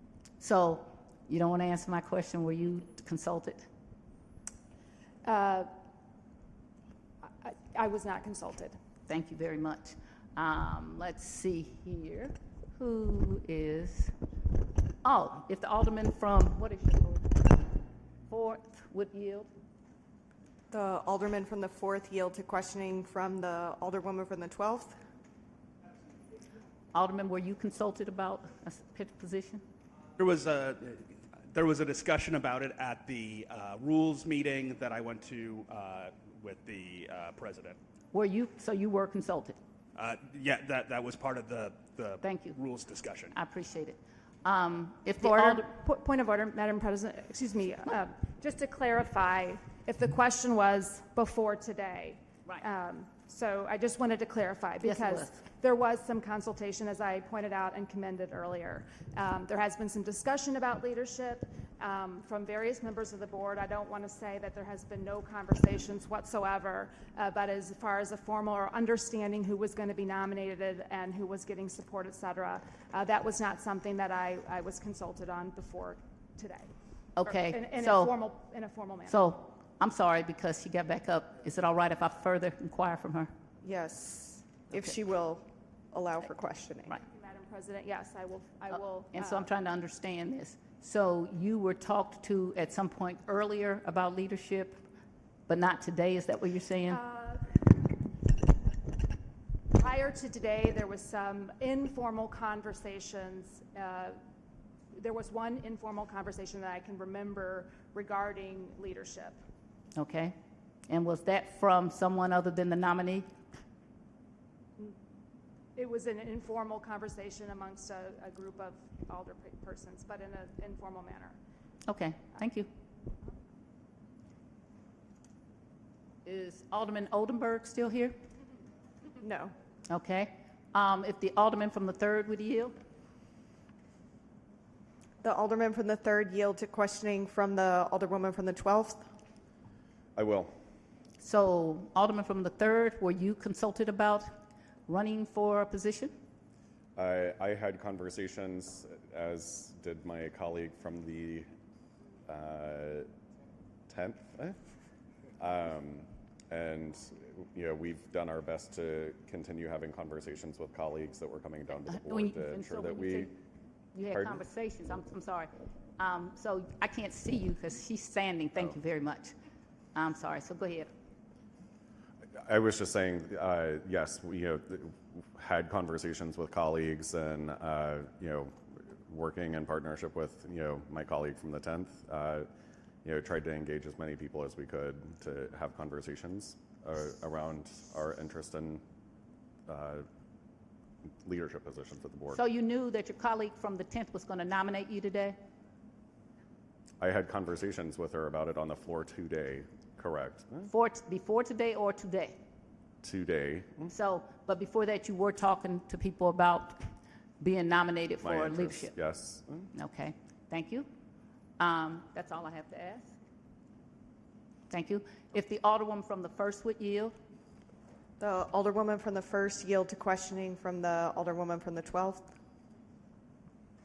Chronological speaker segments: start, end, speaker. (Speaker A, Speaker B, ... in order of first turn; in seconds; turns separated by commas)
Speaker A: 0.4-3.7, Speaker B: 5.2-5.7, Speaker B: 7.2-8.8, Speaker A: 9.1-14.1, Speaker A: 15.0-17.5, Speaker A: 18.3-19.5, Speaker C: 20.7-24.9, Speaker A: 26.9-29.6, Speaker D: 30.2-37.8, Speaker A: 38.1-39.6, Speaker D: 40.0-43.4, Speaker A: 42.2-42.5, Speaker A: 43.3-45.7, Speaker B: 45.2-76.7, Speaker A: 54.8-55.4, Speaker A: 77.2-78.1, Speaker B: 77.3-79.2, Speaker A: 79.1-83.3, Speaker C: 83.6-87.0, Speaker B: 87.0-89.5, Speaker A: 88.7-94.8, Speaker A: 95.5-97.0, Speaker B: 96.9-97.6, Speaker B: 99.8-104.2, Speaker B: 104.9-109.4, Speaker A: 110.0-110.3, Speaker A: 110.9-113.3, Speaker B: 115.8-121.4, Speaker A: 121.9-122.7, Speaker A: 126.2-128.2, Speaker C: 129.2-129.5, Speaker A: 129.9-132.7, Speaker C: 135.2-139.1, Speaker E: 140.2-140.5, Speaker A: 141.2-144.3, Speaker A: 144.9-146.1, Speaker E: 147.0-151.5, Speaker E: 152.3-153.1, Speaker E: 153.9-154.6, Speaker E: 155.4-163.3, Speaker A: 161.8-163.3, Speaker A: 163.9-169.3, Speaker E: 164.0-164.4, Speaker A: 169.9-170.9, Speaker E: 172.4-178.5, Speaker E: 179.1-182.5, Speaker E: 183.1-188.8, Speaker E: 189.7-190.1, Speaker E: 191.2-192.4, Speaker A: 192.3-195.4, Speaker E: 197.0-200.7, Speaker A: 200.7-202.4, Speaker E: 203.0-203.9, Speaker A: 203.9-206.8, Speaker A: 207.4-208.9, Speaker E: 208.2-209.7, Speaker A: 209.7-210.9, Speaker A: 211.6-213.1, Speaker A: 214.7-217.2, Speaker C: 218.2-222.3